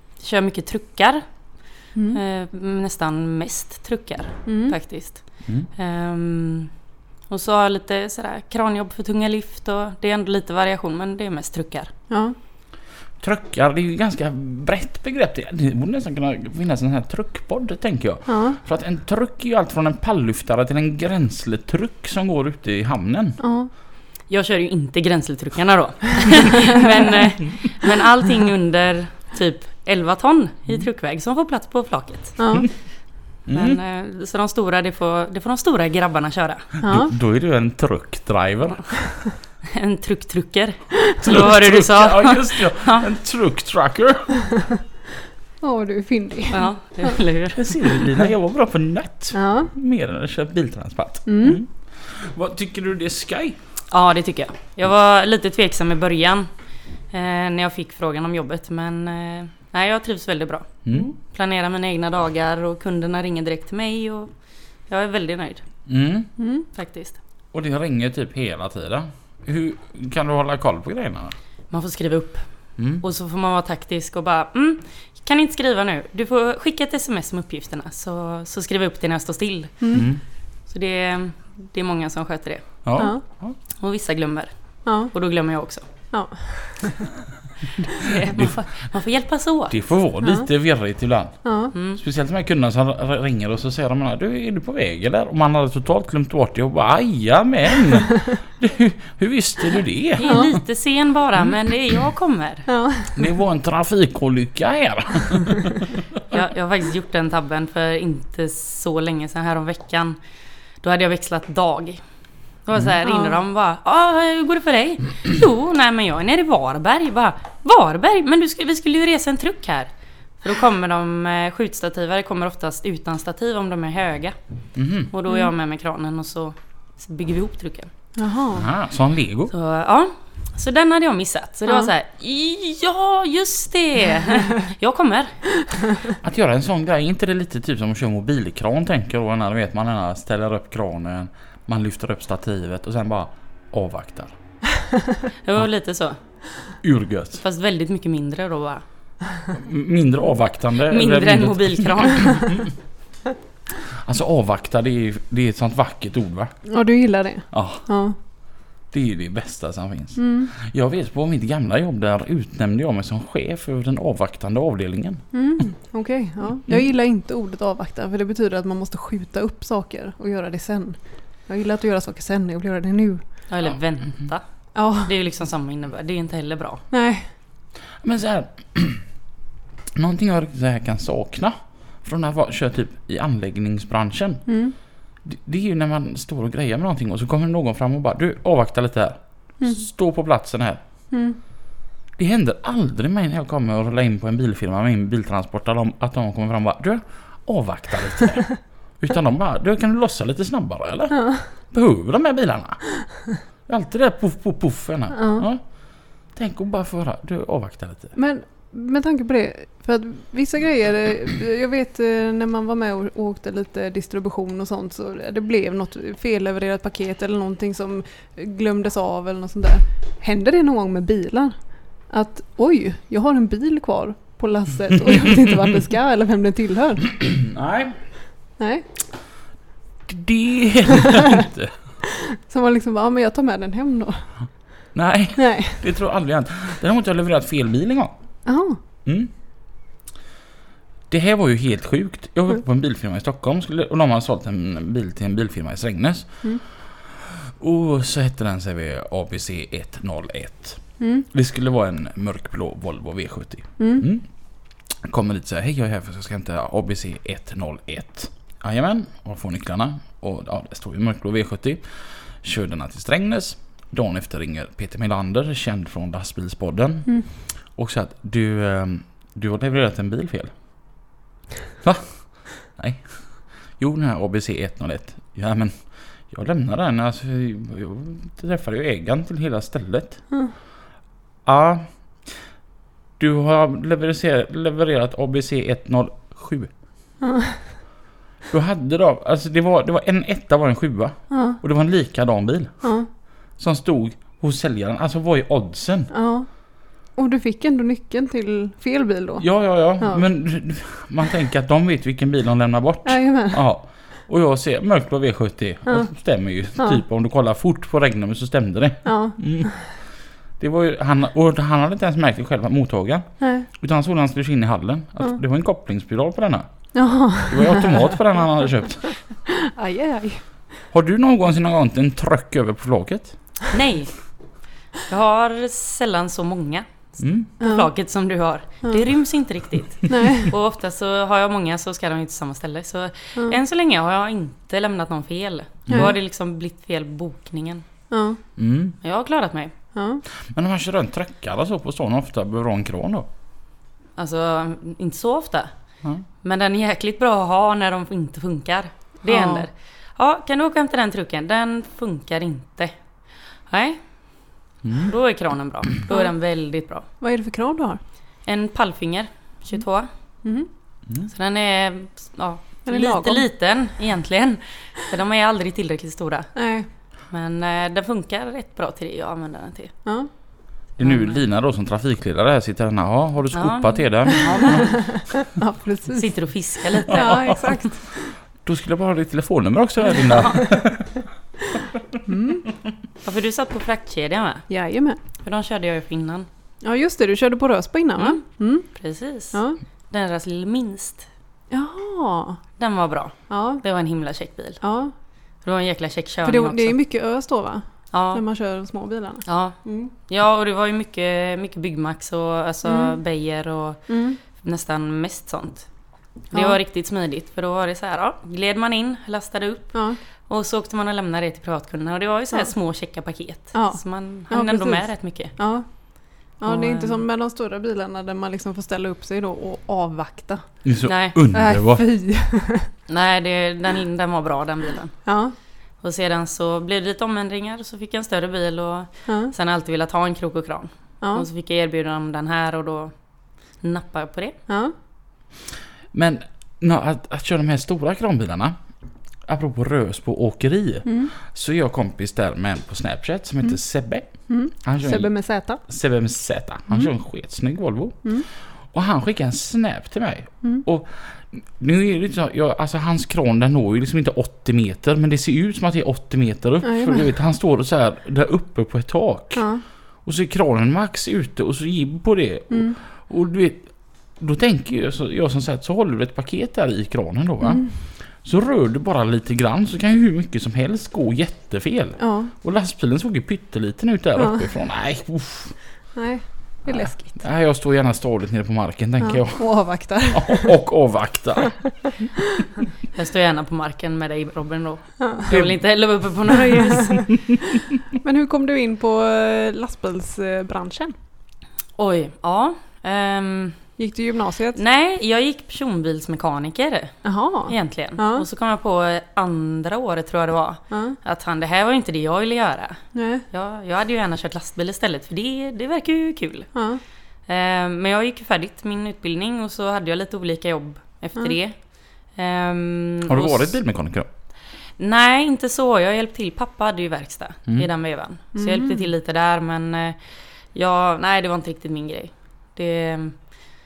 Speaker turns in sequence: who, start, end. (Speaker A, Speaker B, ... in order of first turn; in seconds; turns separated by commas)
Speaker A: 0.2-1.2, Speaker B: 1.9-2.2, Speaker A: 2.1-6.7, Speaker B: 4.5-4.7, Speaker A: 7.3-11.9, Speaker B: 12.1-12.3, Speaker C: 13.2-23.4, Speaker B: 18.3-18.6, Speaker B: 23.4-23.7, Speaker A: 24.3-32.4, Speaker B: 32.4-32.7, Speaker C: 33.5-33.8, Speaker A: 33.5-36.7, Speaker C: 36.8-39.1, Speaker B: 36.8-37.1, Speaker A: 39.7-43.0, Speaker C: 41.2-44.4, Speaker B: 45.6-47.2, Speaker A: 46.5-47.7, Speaker C: 47.5-53.6, Speaker B: 49.3-49.7, Speaker B: 51.2-51.6, Speaker A: 53.9-56.5, Speaker A: 57.1-60.7, Speaker C: 60.8-61.1, Speaker A: 61.2-64.3, Speaker A: 64.9-65.6, Speaker C: 65.9-66.3, Speaker B: 66.4-66.7, Speaker A: 66.7-67.2, Speaker C: 67.5-71.3, Speaker A: 71.7-72.5, Speaker C: 72.8-73.0, Speaker A: 73.0-79.7, Speaker B: 79.8-80.1, Speaker C: 79.9-80.2, Speaker A: 80.7-83.1, Speaker C: 82.8-83.5, Speaker B: 83.0-83.2, Speaker A: 83.8-84.5, Speaker B: 84.8-85.1, Speaker A: 85.1-85.8, Speaker B: 86.1-87.1, Speaker A: 87.8-89.8, Speaker C: 88.0-88.5, Speaker C: 89.7-91.3, Speaker B: 91.4-91.7, Speaker A: 91.7-92.0, Speaker C: 92.0-100.6, Speaker A: 100.2-102.7, Speaker B: 102.7-103.2, Speaker C: 103.1-106.0, Speaker A: 106.3-110.2, Speaker A: 110.8-112.0, Speaker A: 112.7-124.3, Speaker B: 113.0-113.4, Speaker C: 124.8-125.1, Speaker A: 125.1-127.9, Speaker B: 128.2-128.7, Speaker C: 128.5-129.5, Speaker A: 129.5-135.4, Speaker C: 136.2-144.3, Speaker A: 145.4-146.2, Speaker C: 146.8-147.4, Speaker A: 147.3-148.8, Speaker C: 149.5-152.7, Speaker A: 150.9-152.4, Speaker C: 153.8-156.5, Speaker B: 156.7-158.2, Speaker C: 157.5-157.8, Speaker C: 158.9-165.2, Speaker B: 160.2-160.5, Speaker B: 165.3-173.2, Speaker A: 173.5-176.8, Speaker B: 174.7-175.1, Speaker B: 176.9-177.3, Speaker C: 178.0-179.0, Speaker C: 180.0-184.4, Speaker B: 184.5-184.7, Speaker C: 185.2-190.8, Speaker B: 191.1-191.4, Speaker C: 192.2-202.8, Speaker B: 201.1-201.5, Speaker C: 203.7-205.6, Speaker B: 205.1-205.5, Speaker C: 206.3-208.1, Speaker B: 208.2-221.5, Speaker B: 222.1-227.2, Speaker C: 227.2-228.0, Speaker B: 228.6-228.8, Speaker C: 230.1-231.7, Speaker B: 232.2-234.3, Speaker C: 234.9-238.1, Speaker B: 235.4-235.8, Speaker B: 238.5-238.8, Speaker C: 239.1-239.3, Speaker C: 241.1-254.2, Speaker B: 251.0-251.2, Speaker B: 253.8-254.0, Speaker C: 255.0-261.9, Speaker C: 262.4-267.1, Speaker C: 267.7-270.5, Speaker C: 271.8-280.2, Speaker C: 281.5-281.9, Speaker C: 283.2-286.7, Speaker B: 287.2-287.6, Speaker C: 288.5-292.9, Speaker B: 291.3-291.6, Speaker C: 293.6-296.1, Speaker B: 296.1-296.5, Speaker B: 297.1-300.2, Speaker C: 299.4-309.7, Speaker B: 303.0-303.6, Speaker B: 305.9-306.1, Speaker B: 309.0-309.8, Speaker C: 310.6-316.6, Speaker B: 313.4-313.7, Speaker B: 316.9-318.1, Speaker C: 317.5-319.1, Speaker B: 319.5-320.4, Speaker C: 320.9-323.4, Speaker A: 323.7-324.1, Speaker A: 325.1-326.9, Speaker C: 327.2-327.5, Speaker A: 327.5-337.9, Speaker B: 327.6-327.9, Speaker B: 330.1-330.5, Speaker C: 335.9-336.1, Speaker B: 338.1-338.4, Speaker C: 338.6-339.0, Speaker A: 339.0-339.7, Speaker B: 339.9-340.2, Speaker C: 340.5-343.3, Speaker A: 344.2-345.7, Speaker A: 346.4-353.0, Speaker B: 349.3-349.6, Speaker A: 353.7-354.0, Speaker C: 354.8-355.1, Speaker A: 355.0-357.1, Speaker B: 357.2-358.0, Speaker A: 358.4-360.1, Speaker B: 360.4-360.7, Speaker A: 361.3-366.5, Speaker B: 362.9-363.4, Speaker B: 366.6-366.9, Speaker A: 367.3-369.9, Speaker B: 370.1-370.3, Speaker C: 371.0-374.9, Speaker A: 371.0-371.3, Speaker A: 373.5-375.0, Speaker B: 374.7-376.3, Speaker A: 376.1-377.8, Speaker B: 377.0-378.0, Speaker C: 378.6-381.1, Speaker A: 380.1-380.6, Speaker B: 382.3-382.7, Speaker A: 383.2-384.6, Speaker B: 384.7-385.2, Speaker A: 385.4-386.5, Speaker B: 386.8-388.9, Speaker A: 388.9-389.6, Speaker B: 389.5-389.8, Speaker A: 390.1-391.3, Speaker B: 391.7-392.6, Speaker A: 392.8-394.8, Speaker B: 393.5-393.8, Speaker B: 394.8-395.1, Speaker A: 395.6-397.0, Speaker B: 396.4-400.1, Speaker A: 398.1-398.4, Speaker A: 399.4-405.9, Speaker B: 402.9-403.2, Speaker B: 404.1-404.4, Speaker A: 406.5-415.6, Speaker B: 413.7-415.9, Speaker B: 416.6-420.6, Speaker A: 416.6-417.2, Speaker C: 420.8-422.0, Speaker A: 421.1-421.4, Speaker B: 421.5-422.9, Speaker A: 423.1-425.1, Speaker B: 425.2-425.6, Speaker A: 426.0-433.1, Speaker B: 429.3-429.5, Speaker B: 431.2-431.5, Speaker A: 433.8-434.6, Speaker B: 434.7-434.9, Speaker C: 436.1-438.8, Speaker C: 439.5-445.3, Speaker B: 441.1-441.3, Speaker B: 444.5-445.8, Speaker C: 445.9-448.3, Speaker C: 448.9-459.6, Speaker B: 456.8-457.2, Speaker B: 459.6-459.8, Speaker C: 460.2-475.8, Speaker B: 462.7-463.0, Speaker B: 467.6-467.9, Speaker B: 472.2-472.5, Speaker B: 474.4-474.6, Speaker B: 476.1-477.4, Speaker C: 476.9-479.6, Speaker B: 479.2-480.8, Speaker C: 480.3-482.0, Speaker A: 483.1-487.2, Speaker B: 485.2-485.5, Speaker C: 485.5-485.8, Speaker B: 486.5-487.4, Speaker B: 488.2-491.1, Speaker A: 492.0-493.8, Speaker B: 494.0-494.8, Speaker A: 494.8-506.7, Speaker B: 497.2-498.5, Speaker B: 500.9-501.2, Speaker B: 503.1-503.4, Speaker B: 506.8-507.0, Speaker A: 507.5-511.8, Speaker A: 512.3-513.7, Speaker C: 513.2-514.3, Speaker A: 515.0-520.2, Speaker B: 518.5-519.1, Speaker A: 520.7-523.4